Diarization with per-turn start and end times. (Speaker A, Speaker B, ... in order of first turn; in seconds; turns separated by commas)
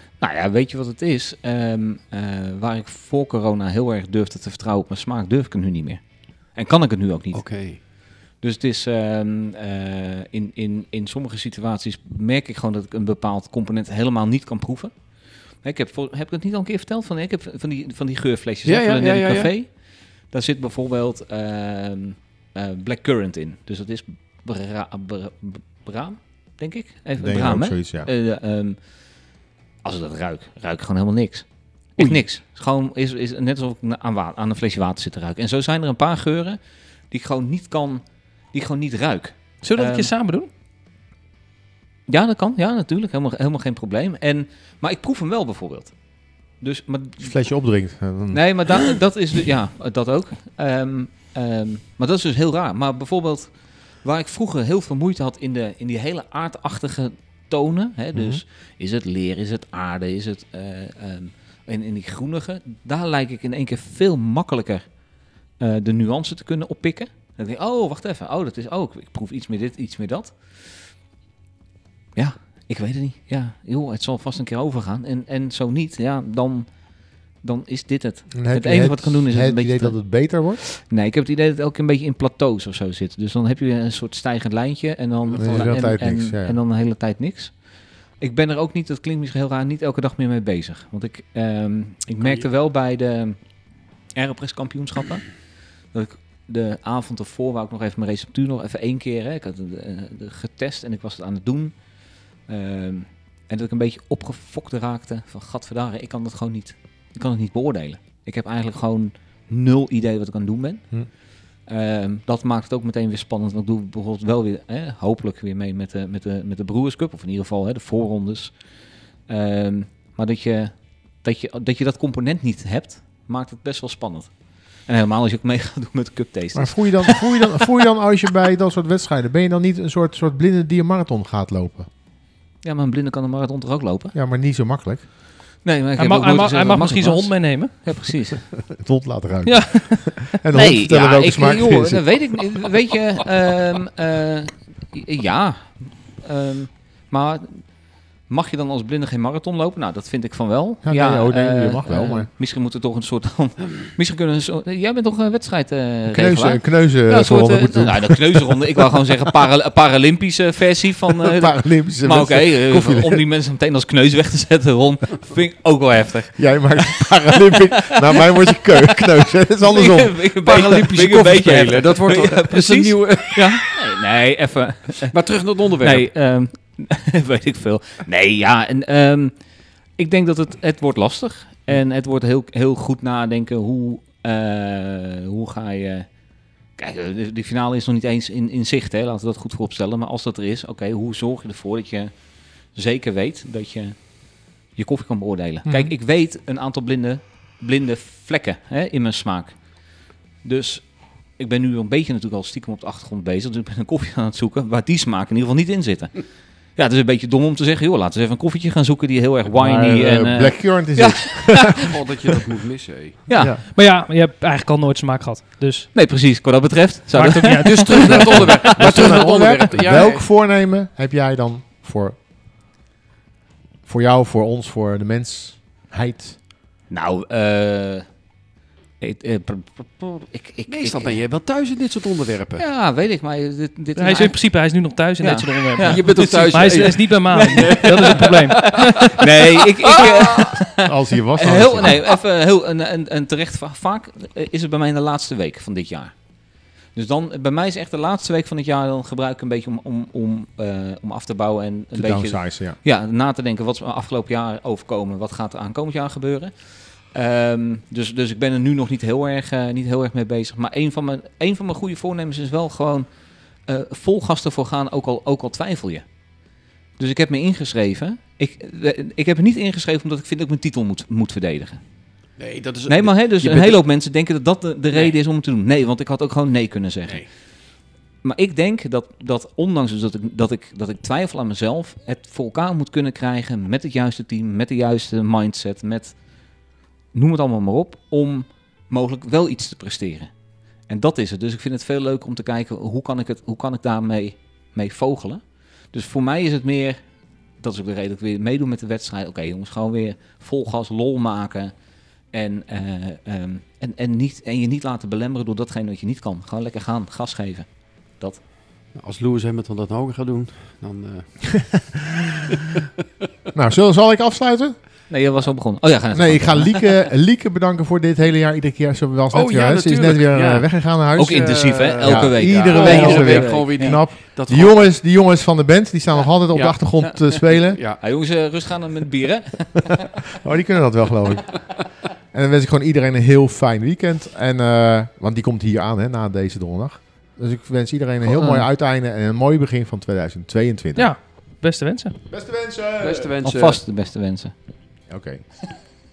Speaker A: 0.2-15.0, Speaker B: 7.3-7.8, Speaker A: 15.6-28.9, Speaker B: 18.6-19.5, Speaker C: 27.2-28.1, Speaker A: 29.8-40.1, Speaker D: 39.6-40.5, Speaker A: 42.1-46.0, Speaker A: 46.5-47.4, Speaker C: 47.2-49.0, Speaker A: 48.3-65.0, Speaker C: 58.1-58.4, Speaker A: 65.6-70.8, Speaker A: 72.2-76.8, Speaker A: 77.4-87.5, Speaker C: 78.3-80.6, Speaker B: 85.2-85.9, Speaker C: 85.4-86.6, Speaker A: 88.2-93.4, Speaker B: 92.2-92.5, Speaker A: 94.1-95.4, Speaker A: 95.9-101.8, Speaker A: 102.5-111.1, Speaker A: 111.7-118.6, Speaker A: 119.3-124.3, Speaker A: 124.8-127.5, Speaker C: 126.5-131.9, Speaker A: 132.6-134.2, Speaker C: 134.1-135.0, Speaker A: 135.6-138.5, Speaker D: 136.0-137.7, Speaker C: 138.7-142.3, Speaker D: 139.4-140.2, Speaker A: 140.5-167.0, Speaker C: 150.8-152.3, Speaker C: 156.1-159.1, Speaker C: 161.2-163.3, Speaker C: 166.4-170.2, Speaker A: 167.7-168.2, Speaker A: 169.6-175.2, Speaker B: 170.4-173.6, Speaker B: 175.1-176.1, Speaker A: 175.8-179.3, Speaker A: 180.0-186.1, Speaker A: 186.8-192.1, Speaker A: 192.7-199.6, Speaker C: 195.7-195.9, Speaker A: 200.4-211.8, Speaker C: 209.5-211.9, Speaker B: 211.8-213.2, Speaker A: 213.3-213.5, Speaker C: 213.3-213.6, Speaker D: 213.7-215.9, Speaker A: 215.9-219.2, Speaker D: 217.1-218.4, Speaker B: 217.6-220.3, Speaker C: 218.8-222.2, Speaker C: 223.9-226.4, Speaker A: 226.9-228.1, Speaker A: 229.0-231.2, Speaker B: 230.7-232.7, Speaker A: 232.6-246.2, Speaker D: 234.0-239.1, Speaker B: 235.8-240.6, Speaker C: 240.8-242.0, Speaker A: 246.9-263.1, Speaker C: 251.9-252.8, Speaker A: 263.7-266.0, Speaker A: 267.0-271.8, Speaker B: 272.4-273.8, Speaker A: 272.9-277.3, Speaker A: 278.2-286.2, Speaker A: 287.1-290.3, Speaker A: 290.9-297.0, Speaker A: 297.6-301.7, Speaker A: 302.3-308.4, Speaker B: 308.9-311.9, Speaker C: 313.6-314.8, Speaker A: 315.1-316.9, Speaker C: 316.1-327.8, Speaker B: 319.3-320.7, Speaker A: 321.2-324.1, Speaker B: 321.3-324.8, Speaker B: 326.5-328.0, Speaker A: 328.0-330.3, Speaker C: 330.4-331.7, Speaker C: 332.3-341.1, Speaker A: 338.2-338.7, Speaker D: 341.0-342.1, Speaker C: 342.3-343.3, Speaker B: 343.0-343.8, Speaker A: 343.4-344.5, Speaker C: 345.1-345.4